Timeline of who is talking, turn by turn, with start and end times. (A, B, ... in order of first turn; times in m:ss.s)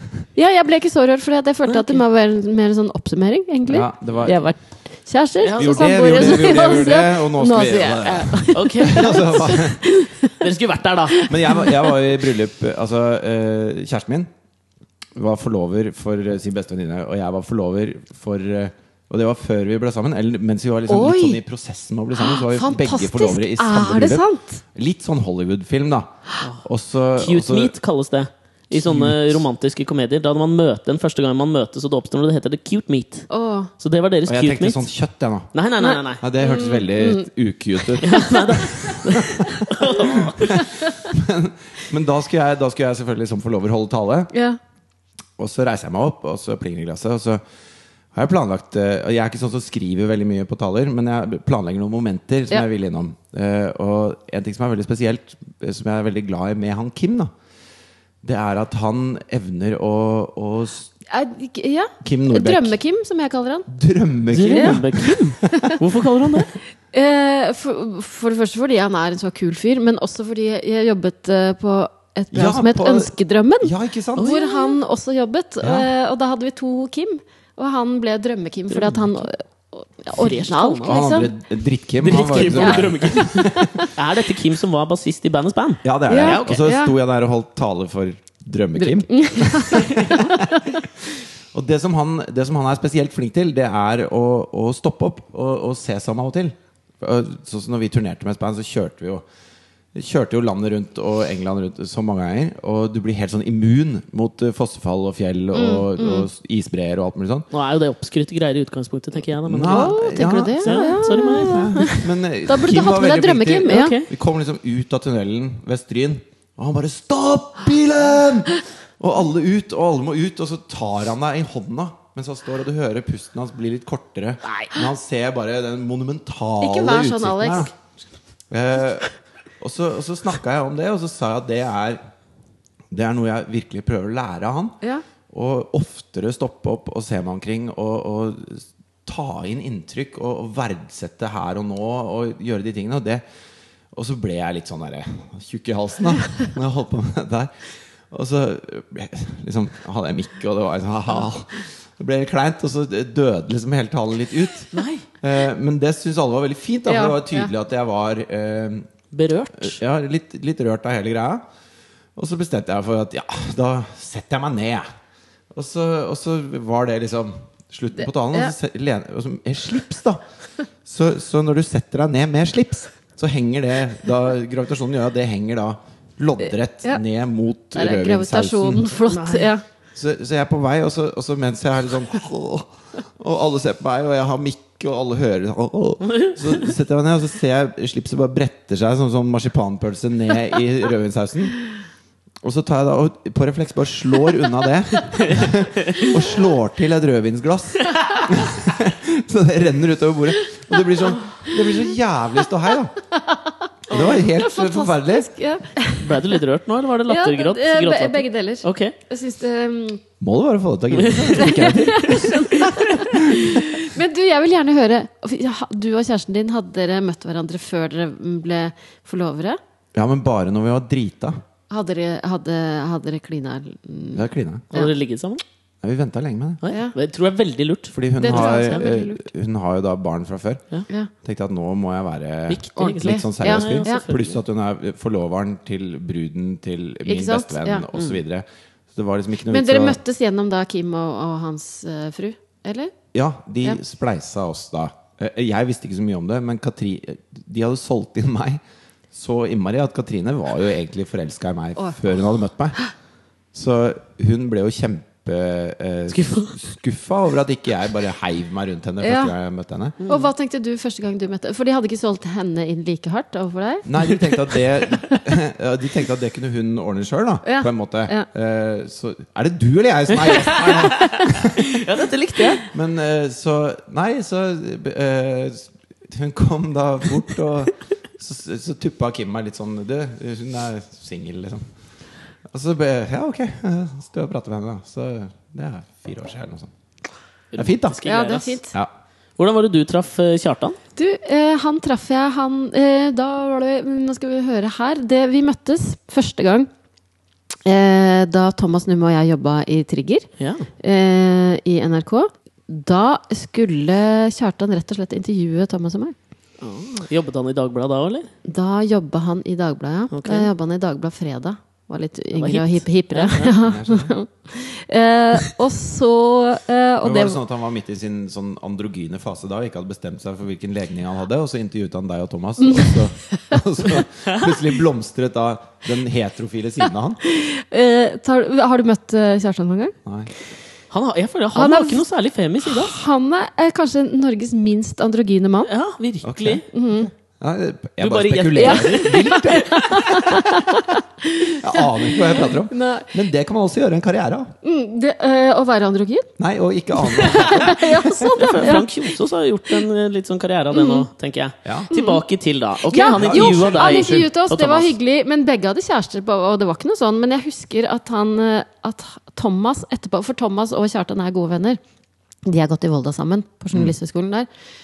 0:00.4-0:10.3 A
0:01.7-0:02.0 B
0:03.7-0:04.4 C
0:05.4-0:06.7 B
0:05.6-0:09.8 C
0:08.5-0:09.6 B
0:10.4-0:11.3 B
0:11.2-0:11.8 A
0:11.3-0:14.3 C
0:15.1-0:24.2 C
0:20.9-0:21.4 A
0:22.2-0:24.6 A
0:24.7-0:26.1 C
0:26.6-0:27.7 C
0:27.2-0:33.3 B
0:28.7-0:29.4 C
0:33.3-0:33.7 A
0:33.8-0:34.8 B
0:34.3-0:35.5 C
0:35.5-0:36.3 B
0:35.8-0:37.3 A
0:36.2-0:39.4 C
0:38.0-0:40.6 B
0:40.1-0:44.3 C
0:40.4-0:40.9 A
0:44.3-0:44.6 A
0:45.4-0:47.4 C
0:48.1-0:57.3 C
0:58.2-1:00.9 C
1:01.1-1:03.7 A
1:02.0-1:02.8 C
1:03.7-1:05.7 C
1:04.3-1:06.5 B
1:04.5-1:04.8 A
1:06.9-1:21.3 A
1:12.3-1:14.3 C
1:14.2-1:14.8 B
1:15.6-1:15.9 C
1:18.7-1:19.1 B
1:20.1-1:21.0 B
1:20.8-1:23.7 C
1:22.0-1:26.7 B
1:22.3-1:23.9 A
1:25.8-1:30.7 C
1:26.1-1:26.9 A
1:28.8-1:30.8 A
1:31.5-1:39.2 C
1:39.9-1:47.5 C
1:45.5-1:46.3 A
1:47.5-1:50.0 B
1:49.4-2:07.7 C
1:49.7-1:54.0 A
1:50.6-1:51.7 B
1:53.7-1:54.1 B
2:06.6-2:07.7 A
2:08.5-2:12.0 C
2:12.9-2:14.8 C
2:15.3-2:23.2 C
2:23.9-2:27.5 C
2:28.1-2:38.9 C
2:34.7-2:35.0 B
2:36.9-2:37.5 A
2:39.1-2:39.8 B
2:39.6-2:41.4 C
2:42.2-2:44.8 C
2:45.5-2:50.2 C
2:48.0-2:48.5 A
2:50.8-2:58.9 C
2:57.7-2:59.6 A
2:59.1-2:59.5 B
2:59.9-3:11.6 C
3:06.1-3:06.5 B
3:12.4-3:22.9 C
3:15.2-3:16.1 B
3:23.1-3:26.3 A
3:23.9-3:25.3 C
3:26.0-3:28.9 B
3:27.1-3:30.0 A
3:30.2-3:33.6 C
3:30.9-3:32.8 B
3:31.4-3:39.6 A
3:39.9-3:41.4 C
3:41.7-3:44.9 A
3:44.1-3:44.7 C
3:44.7-3:45.4 B
3:45.8-3:46.6 C
3:46.6-3:48.8 B
3:46.7-3:46.9 A
3:47.9-3:50.6 C
3:48.2-3:49.3 A
3:51.2-4:00.0 C
3:52.5-3:54.4 B
3:52.8-3:54.0 A
3:57.0-3:57.8 A
3:59.5-4:02.9 A
4:03.1-4:08.6 C
4:09.1-4:12.8 C
4:11.8-4:12.0 A
4:13.5-4:20.0 C
4:16.1-4:16.6 B
4:19.0-4:19.3 A
4:20.0-4:20.3 B
4:20.1-4:23.9 A
4:23.8-4:31.6 C
4:27.4-4:28.3 A
4:30.2-4:32.6 B
4:32.7-4:41.6 C
4:42.5-4:46.7 C
4:47.5-4:48.6 B
4:47.6-4:48.0 C
4:48.0-4:48.7 A
4:49.4-4:50.8 B
4:51.0-4:56.7 A
4:57.6-5:00.3 A
5:00.4-5:00.7 B
5:00.8-5:06.1 A
5:06.6-5:08.3 B
5:08.4-5:17.4 A
5:10.1-5:10.5 B
5:12.3-5:13.5 B
5:13.6-5:14.1 C
5:17.0-5:27.2 C
5:22.6-5:23.6 A
5:27.2-5:29.9 A
5:30.0-5:30.3 C
5:30.9-5:33.0 B
5:31.5-5:32.0 A
5:32.6-5:35.7 A
5:35.7-5:36.6 B
5:36.2-5:40.5 C
5:36.7-5:37.1 A
5:38.0-5:40.1 B
5:38.6-5:43.1 A
5:41.5-5:44.5 C
5:44.6-5:46.3 A
5:46.4-5:48.3 C
5:47.0-5:48.9 A
5:47.3-5:47.7 B
5:48.3-5:54.9 B
5:50.7-5:51.0 A
5:51.6-5:51.9 C
5:51.9-5:52.2 A
5:52.9-6:01.8 A
5:53.1-5:54.3 C
6:02.4-6:04.5 A